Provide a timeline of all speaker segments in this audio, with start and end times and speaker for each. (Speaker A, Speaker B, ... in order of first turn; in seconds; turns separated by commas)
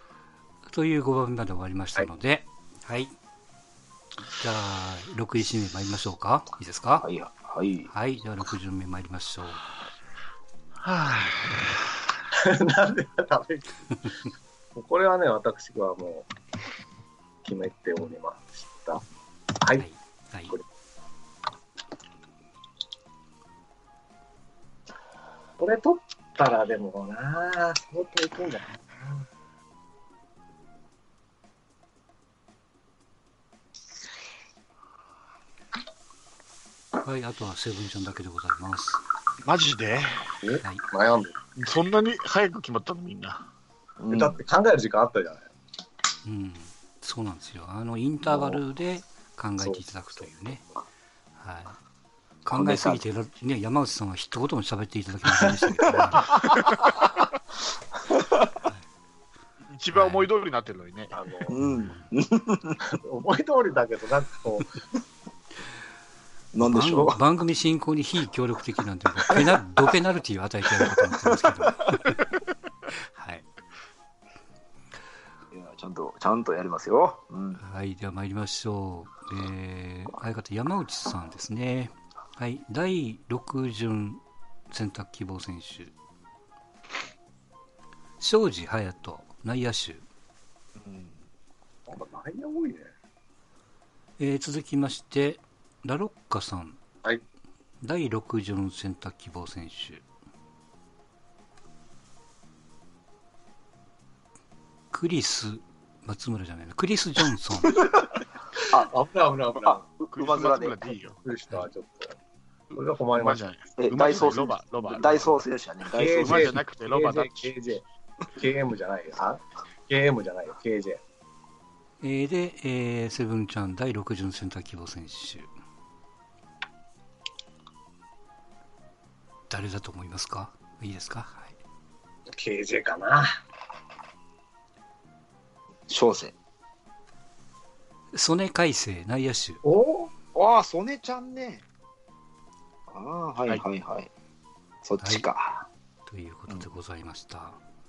Speaker A: 0.7-3.1, Speaker A: 4.3-7.1, Speaker B: 7.0-7.9, Speaker A: 7.9-9.6, Speaker C: 10.8-11.8, Speaker D: 12.3-13.7, Speaker D: 14.8-16.3, Speaker D: 17.4-19.0, Speaker D: 19.6-19.8, Speaker A: 19.8-20.5, Speaker D: 25.6-29.2, Speaker A: 37.0-39.0, Speaker C: 39.4-40.3, Speaker D: 40.4-41.4, Speaker C: 41.6-43.5, Speaker B: 44.0-44.4, Speaker D: 44.1-45.5, Speaker A: 46.2-50.6, Speaker B: 48.3-48.6, Speaker A: 51.4-51.8, Speaker A: 52.5-56.4, Speaker B: 52.5-53.0, Speaker B: 58.1-58.5, Speaker C: 59.7-61.1, Speaker A: 59.9-60.3, Speaker D: 61.1-61.6, Speaker B: 61.5-62.8, Speaker A: 61.6-62.0, Speaker D: 62.9-64.8, Speaker B: 66.5-67.2, Speaker A: 66.6-72.2, Speaker B: 70.9-71.3, Speaker A: 73.0-73.5, Speaker B: 75.5-77.6, Speaker A: 77.6-85.9, Speaker A: 88.2-90.0, Speaker C: 90.8-91.1, Speaker D: 91.9-92.9, Speaker A: 94.2-96.8, Speaker A: 97.8-100.0, Speaker A: 104.9-107.9, Speaker B: 108.6-108.9, Speaker D: 108.7-109.8, Speaker B: 109.6-111.0, Speaker C: 110.1-111.2, Speaker D: 111.2-112.2, Speaker D: 112.8-113.4, Speaker C: 113.2-115.5, Speaker B: 113.8-116.6, Speaker D: 115.9-117.8, Speaker C: 116.1-117.5, Speaker D: 118.3-121.0, Speaker A: 122.0-125.5, Speaker A: 129.5-131.6, Speaker D: 132.3-133.3, Speaker B: 135.9-136.3, Speaker A: 138.1-139.6, Speaker D: 139.6-140.1, Speaker B: 140.3-141.6, Speaker B: 142.9-144.1, Speaker B: 144.8-145.7, Speaker A: 145.0-145.3, Speaker A: 146.1-147.6